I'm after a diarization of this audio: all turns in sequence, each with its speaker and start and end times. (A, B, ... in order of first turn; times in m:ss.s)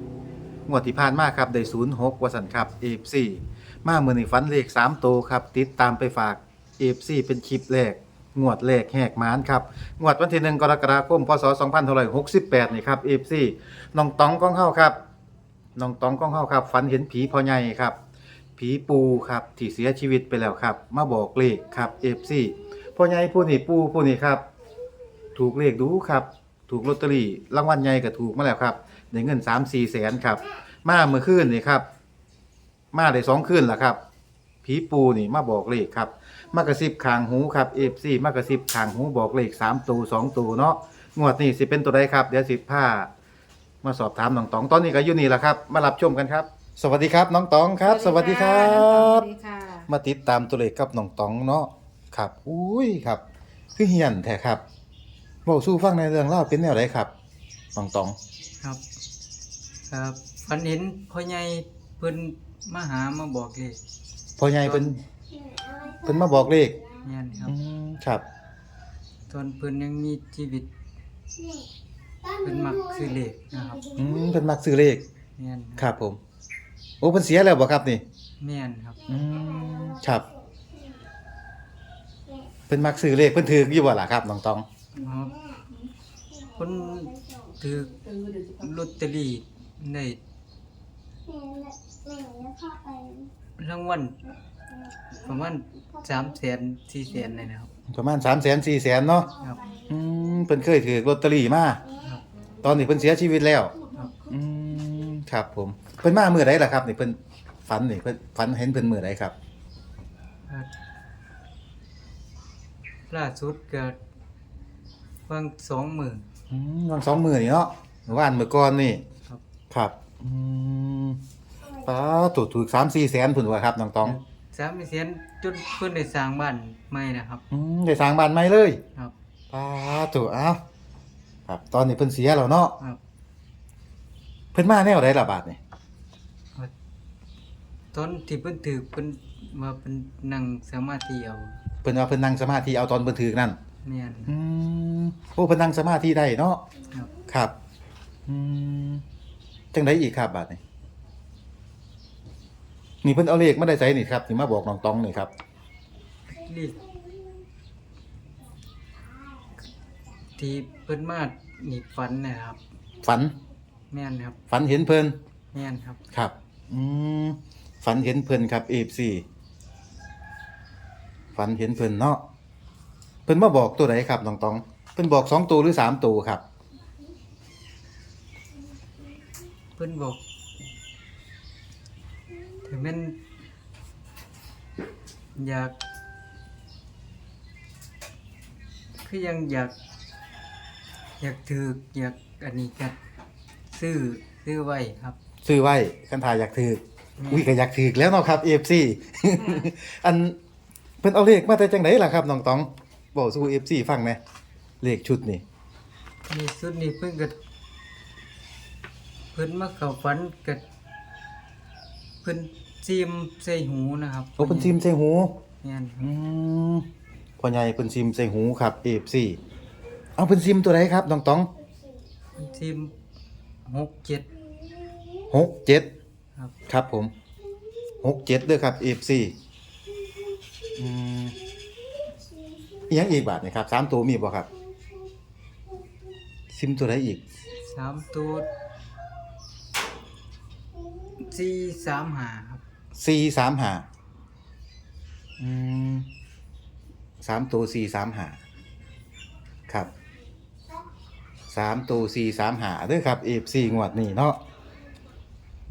0:00.7-0:15.0 A
0:15.8-0:18.0 A
0:18.6-0:24.4 A
0:25.4-0:31.8 A
0:32.9-0:34.0 A
0:34.6-0:43.1 A
0:43.8-0:49.3 A
0:48.0-0:49.8 B
0:49.8-0:53.2 A
0:53.8-0:54.6 A
0:55.4-0:57.1 A
0:57.7-0:58.2 A
0:59.9-1:03.8 C
1:04.4-1:05.0 A
1:04.6-1:04.9 C
1:05.9-1:06.8 A
1:07.0-1:07.6 C
1:07.4-1:08.2 A
1:09.3-1:10.7 C
1:12.3-1:13.8 C
1:14.0-1:15.0 A
1:15.4-1:15.9 C
1:15.8-1:16.2 A
1:17.0-1:18.0 A
1:18.4-1:19.0 C
1:19.1-1:20.3 A
1:22.7-1:24.7 A
1:24.9-1:25.4 C
1:26.5-1:30.2 C
1:32.3-1:33.0 B
1:33.6-1:34.2 C
1:35.2-1:37.7 C
1:37.9-1:39.3 A
1:39.4-1:39.7 C
1:39.9-1:41.8 A
1:42.6-1:43.8 A
1:44.3-1:49.3 A
1:53.1-1:54.0 C
1:55.3-1:56.3 C
1:56.5-1:59.0 A
1:59.7-2:01.2 A
2:01.8-2:04.2 A
2:04.0-2:07.4 C
2:07.5-2:08.8 A
2:09.5-2:10.6 A
2:11.4-2:12.8 A
2:14.5-2:15.6 A
2:17.9-2:21.5 C
2:21.8-2:23.6 A
2:23.8-2:24.3 C
2:24.3-2:26.6 A
2:27.3-2:27.5 A
2:28.3-2:29.0 A
2:29.7-2:30.6 A
2:33.0-2:35.3 A
2:36.3-2:36.8 C
2:40.4-2:42.6 C
2:43.0-2:43.3 A
2:43.9-2:44.4 C
2:44.5-2:45.2 A
2:45.5-2:46.0 C
2:46.1-2:49.2 A
2:51.3-2:52.2 A
2:53.2-2:56.4 A
2:59.8-3:00.2 C
3:02.6-3:03.2 C
3:05.3-3:05.8 C
3:09.0-3:09.7 C
3:11.2-3:13.0 C
3:13.7-3:15.2 C
3:15.4-3:20.4 A
3:17.2-3:17.5 C
3:21.0-3:24.2 A
3:24.8-3:25.4 A
3:26.3-3:27.4 C
3:29.3-3:30.6 C
3:32.2-3:34.8 C
3:34.4-3:35.3 A
3:35.6-3:36.0 C
3:36.0-3:36.8 A
3:37.4-3:39.4 A
3:40.2-3:41.5 A
3:42.4-3:42.9 C
3:43.6-3:44.3 C
3:45.3-3:45.9 A
3:46.7-3:47.1 A
3:48.0-3:49.3 A
3:50.8-3:51.4 A
3:52.9-3:54.5 A
3:56.5-3:57.2 A
3:57.7-3:58.5 C
4:01.2-4:02.6 C
4:03.0-4:03.8 A
4:05.4-4:06.1 A
4:07.2-4:08.4 A
4:11.5-4:14.4 A